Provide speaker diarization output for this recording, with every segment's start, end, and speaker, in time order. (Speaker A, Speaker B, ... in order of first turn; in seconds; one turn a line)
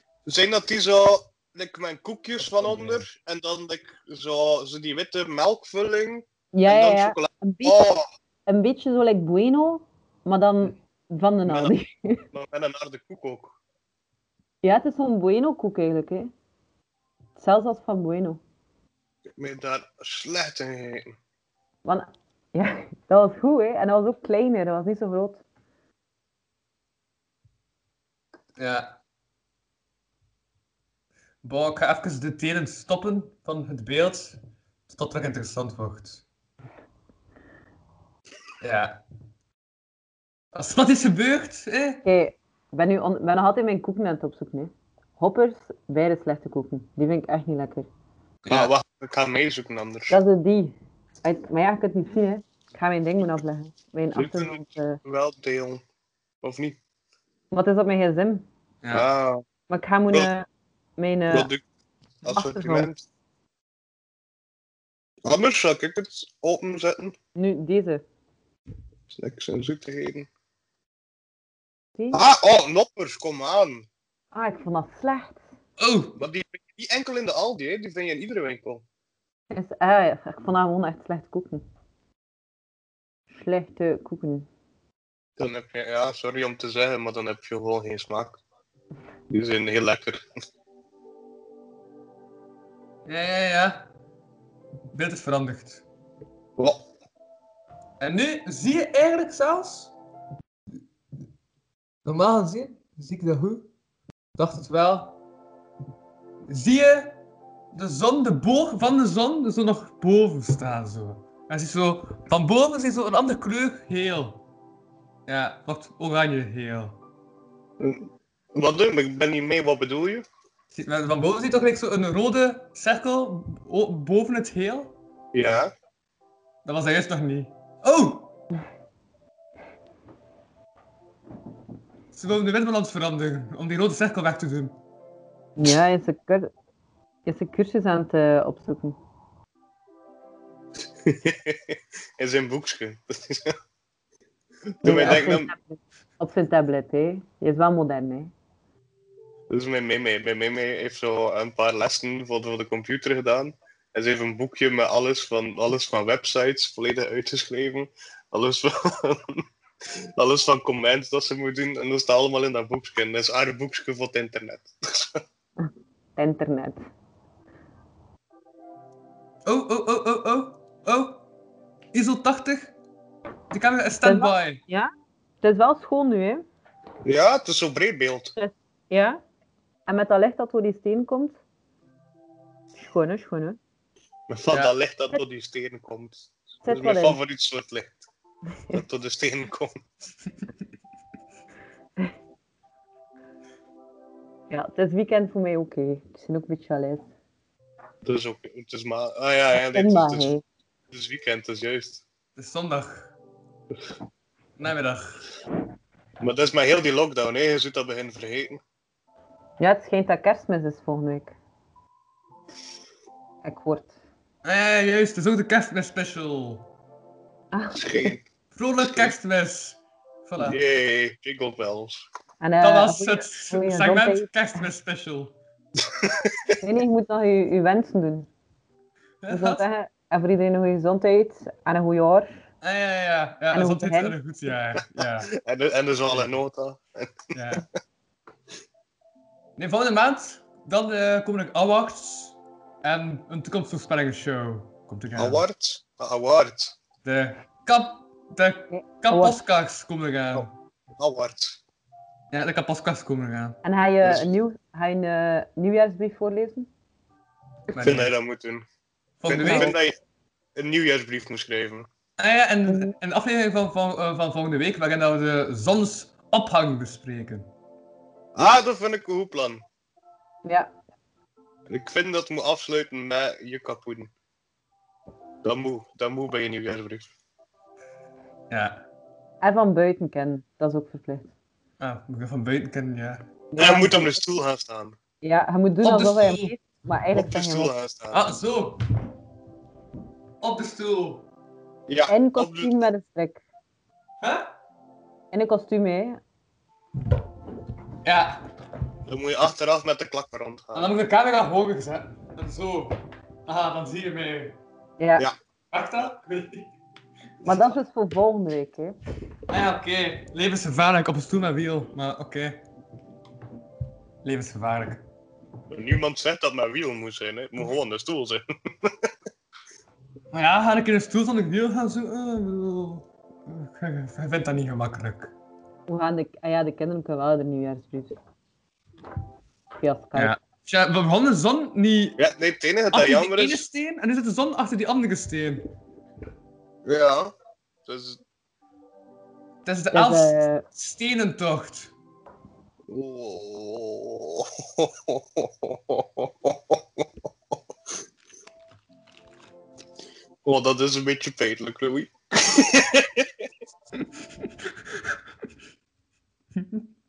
Speaker A: 0.3-8.1
Speaker B: 2.6-3.0
Speaker C: 6.5-7.8
Speaker C: 8.5-12.2
Speaker A: 11.4-11.7
Speaker A: 12.3-13.6
Speaker C: 14.6-16.3
Speaker C: 17.4-18.4
Speaker A: 19.4-21.1
Speaker C: 21.8-25.4
Speaker B: 28.6-29.0
Speaker B: 31.4-36.2
Speaker B: 38.6-39.0
Speaker B: 40.5-42.0
Speaker C: 42.0-47.9
Speaker B: 48.4-48.7
Speaker A: 48.5-50.2
Speaker C: 50.1-55.0
Speaker A: 54.1-55.8
Speaker A: 56.4-56.8
Speaker C: 57.5-58.5
Speaker A: 58.9-59.4
Speaker C: 59.7-61.5
Speaker A: 61.3-61.6
Speaker A: 62.2-63.0
Speaker C: 62.3-62.9
Speaker A: 65.2-67.1
Speaker C: 67.3-68.0
Speaker A: 69.1-70.3
Speaker A: 72.1-73.8
Speaker C: 74.3-75.4
Speaker B: 75.8-76.2
Speaker A: 76.2-78.8
Speaker C: 79.5-81.6
Speaker C: 83.3-84.5
Speaker A: 85.4-88.4
Speaker A: 89.3-90.2
Speaker B: 93.0-93.9
Speaker B: 94.9-95.8
Speaker A: 96.6-96.8
Speaker B: 98.0-99.9
Speaker B: 102.0-103.7
Speaker B: 104.4-105.2
Speaker B: 106.5-107.2
Speaker B: 107.7-114.4
Speaker B: 115.3-117.0
Speaker A: 117.8-120.2
Speaker B: 120.7-124.9
Speaker A: 125.3-125.7
Speaker B: 126.6-128.3
Speaker B: 132.1-134.8
Speaker C: 135.6-136.5
Speaker C: 137.2-139.0
Speaker A: 141.0-143.5
Speaker A: 144.8-145.5
Speaker C: 144.8-148.3
Speaker A: 149.5-159.4
Speaker A: 160.2-165.2
Speaker C: 166.2-166.8
Speaker B: 169.4-171.2
Speaker B: 171.9-172.7
Speaker B: 173.5-174.6
Speaker C: 174.0-174.9
Speaker C: 175.4-176.4
Speaker A: 177.0-178.3
Speaker C: 178.3-179.2
Speaker C: 179.9-181.4
Speaker C: 182.8-183.6
Speaker A: 184.3-188.0
Speaker C: 186.6-187.2
Speaker A: 188.7-189.8
Speaker C: 194.5-197.1
Speaker A: 198.0-200.3
Speaker C: 199.5-200.4
Speaker A: 200.9-202.0
Speaker B: 202.3-203.1
Speaker B: 204.6-205.2
Speaker A: 206.2-208.6
Speaker C: 209.6-211.3
Speaker C: 213.4-213.9
Speaker B: 214.4-216.7
Speaker C: 217.5-218.1
Speaker A: 217.7-218.2
Speaker B: 218.5-220.6
Speaker A: 218.8-219.1
Speaker A: 220.4-222.0
Speaker C: 222.4-224.6
Speaker B: 222.6-225.3
Speaker A: 226.0-226.5
Speaker C: 226.6-228.3
Speaker B: 229.2-229.6
Speaker C: 229.3-232.3
Speaker B: 232.6-235.3
Speaker C: 233.5-234.2
Speaker A: 235.3-237.6
Speaker B: 237.3-237.6
Speaker B: 239.6-245.4
Speaker A: 245.2-246.8
Speaker B: 247.0-250.5
Speaker C: 248.7-249.4
Speaker A: 251.0-251.6
Speaker B: 252.3-253.6
Speaker C: 253.6-256.7
Speaker A: 254.0-254.3
Speaker B: 257.7-258.1
Speaker A: 257.8-258.6
Speaker B: 259.2-259.8
Speaker A: 259.2-259.9
Speaker C: 259.4-259.7
Speaker A: 260.6-261.9
Speaker B: 262.2-267.5
Speaker C: 262.7-262.9
Speaker A: 268.3-269.6
Speaker C: 270.4-270.7
Speaker A: 271.7-274.1
Speaker A: 275.4-277.1
Speaker B: 278.5-278.8
Speaker C: 279.4-281.3
Speaker B: 281.8-283.2
Speaker C: 283.5-284.2
Speaker A: 283.6-285.0
Speaker C: 285.2-287.7
Speaker B: 285.8-286.5
Speaker A: 287.1-288.2
Speaker B: 288.1-288.8
Speaker B: 290.4-291.2
Speaker A: 291.9-292.7
Speaker C: 292.1-293.4
Speaker B: 294.2-294.5
Speaker C: 295.3-296.2
Speaker B: 298.0-298.4
Speaker A: 299.1-300.9
Speaker B: 300.7-302.9
Speaker B: 303.5-304.6
Speaker C: 305.0-305.3
Speaker B: 305.7-306.7
Speaker C: 307.4-308.9
Speaker B: 309.5-312.6
Speaker B: 314.2-315.0
Speaker A: 315.7-319.1
Speaker B: 320.3-325.3
Speaker C: 325.9-328.1
Speaker C: 329.8-330.4
Speaker B: 330.1-332.2
Speaker A: 332.2-333.6
Speaker B: 332.9-335.6
Speaker A: 336.8-337.3
Speaker A: 337.9-338.2
Speaker B: 339.6-341.9
Speaker C: 339.9-340.6
Speaker A: 342.9-347.5
Speaker A: 350.4-353.4
Speaker B: 354.0-355.1
Speaker B: 356.6-356.9